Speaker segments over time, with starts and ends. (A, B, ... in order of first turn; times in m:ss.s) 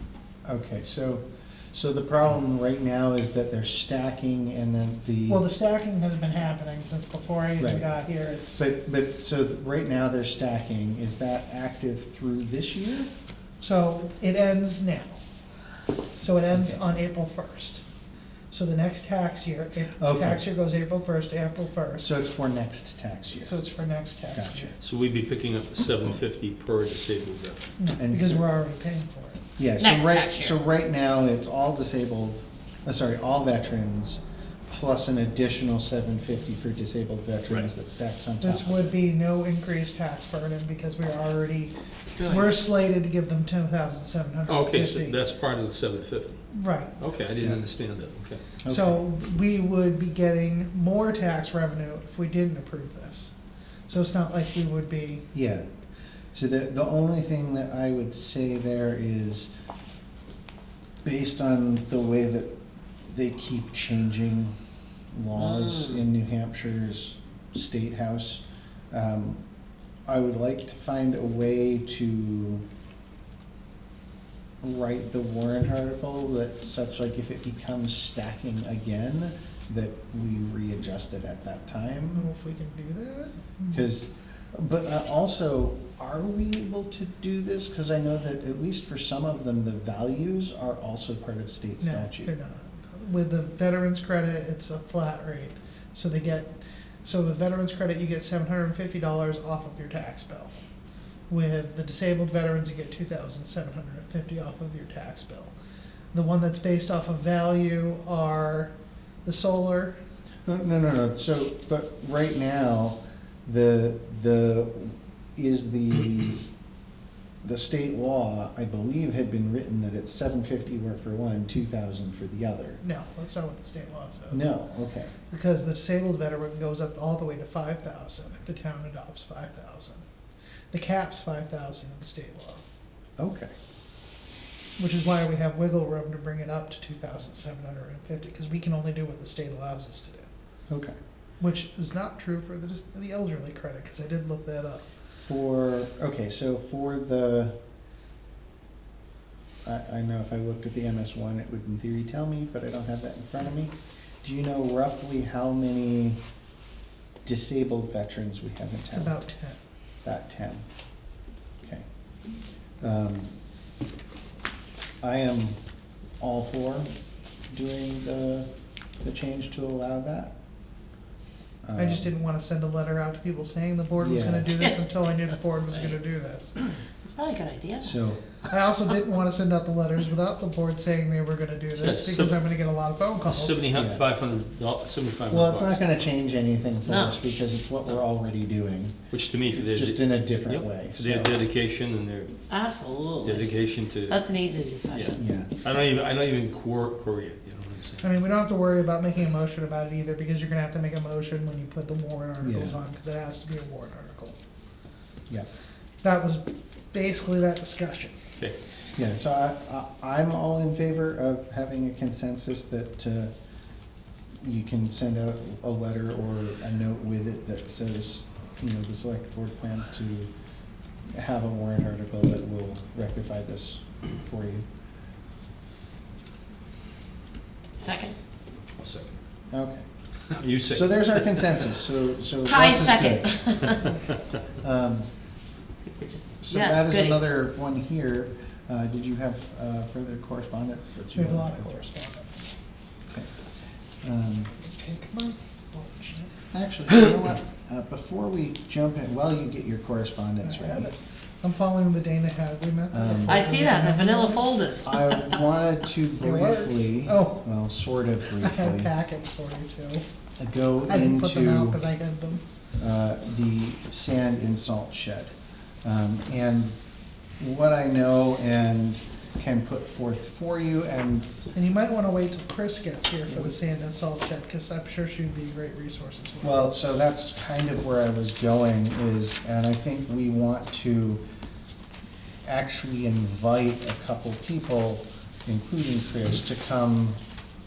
0:00.4-0:05.4 A
0:05.3-0:08.6 B
0:07.6-0:07.9 A
0:08.5-0:13.1 A
0:13.6-0:15.2 B
0:16.2-0:17.8 B
0:16.5-0:16.8 A
0:18.5-0:22.1 B
0:20.0-0:20.4 A
0:22.0-0:23.6 A
0:23.3-0:24.8 B
0:24.3-0:24.7 A
0:24.8-0:27.7 C
0:27.8-0:29.5 B
0:28.0-0:28.5 A
0:29.6-0:38.9 A
0:29.8-0:30.6 D
0:38.4-0:45.2 B
0:42.2-0:42.6 D
0:44.5-0:46.4 C
0:46.5-0:47.0 B
0:47.0-0:48.4 C
0:48.6-0:49.0 A
0:48.7-0:53.3 B
0:53.9-0:55.3 B
0:55.3-0:55.7 A
0:56.3-0:59.5 A
1:01.0-1:02.5 A
1:03.1-1:04.6 A
1:05.1-1:09.4 A
1:05.6-1:06.0 D
1:10.1-1:12.6 A
1:14.6-1:22.3 A
1:22.1-1:23.8 B
1:23.7-1:32.3 A
1:31.8-1:36.5 B
1:37.0-1:40.5 B
1:41.3-1:45.5 B
1:46.1-1:48.7 B
1:49.2-1:50.0 B
1:50.5-1:56.4 A
1:57.4-2:02.8 A
2:02.8-2:04.5 B
2:04.3-2:05.1 A
2:05.3-2:10.0 B
2:10.7-2:12.6 B
2:13.2-2:13.5 A
2:14.8-2:20.3 B
2:20.7-2:20.9 A
2:21.4-2:24.8 B
2:25.2-2:27.6 A
2:29.6-2:36.2 A
2:37.2-2:39.2 A
2:38.9-2:39.6 B
2:40.0-2:40.6 A
2:42.8-2:43.3 A
2:45.0-2:45.6 A
2:46.2-2:46.9 A
2:47.5-2:48.5 A
2:49.0-2:50.3 A
2:51.6-2:52.1 A
2:51.8-2:56.6 B
2:54.0-2:54.6 A
2:55.7-2:56.0 D
2:57.0-2:58.0 D
2:57.8-2:58.2 A
2:58.4-3:03.7 B
3:01.8-3:02.4 C
3:03.3-3:05.9 C
3:03.7-3:04.0 A
3:05.3-3:09.0 A
3:06.9-3:07.2 D
3:09.1-3:12.4 C
3:09.5-3:11.4 A
3:12.5-3:13.5 D
3:13.2-3:14.2 C
3:14.1-3:15.2 D
3:14.9-3:18.2 C
3:15.2-3:15.5 A
3:18.0-3:24.4 B
3:22.4-3:22.8 A
3:26.0-3:28.2 B
3:29.0-3:33.3 A
3:34.4-3:40.3 A
3:41.1-3:44.7 A
3:47.8-3:48.2 D
3:48.8-3:49.1 C
3:49.5-3:49.8 A
3:50.3-3:51.6 C
3:50.7-3:53.3 A
3:52.5-3:53.9 D
3:54.6-3:55.1 A
3:55.9-3:57.2 D
3:56.4-4:01.8 A
4:01.2-4:02.5 B
4:04.0-4:04.5 A
4:04.6-4:06.3 B
4:06.5-4:10.9 A
4:10.4-4:14.5 B
4:12.9-4:13.6 A
4:13.3-4:15.2 D
4:14.8-4:18.9 A
4:16.2-4:17.4 B
4:18.4-4:20.0 B
4:20.4-4:21.8 A
4:20.9-4:22.4 B
4:22.8-4:26.8 A
4:27.4-4:31.3 A
4:31.5-4:36.7 B
4:36.4-4:41.2 A
4:42.4-4:47.2 A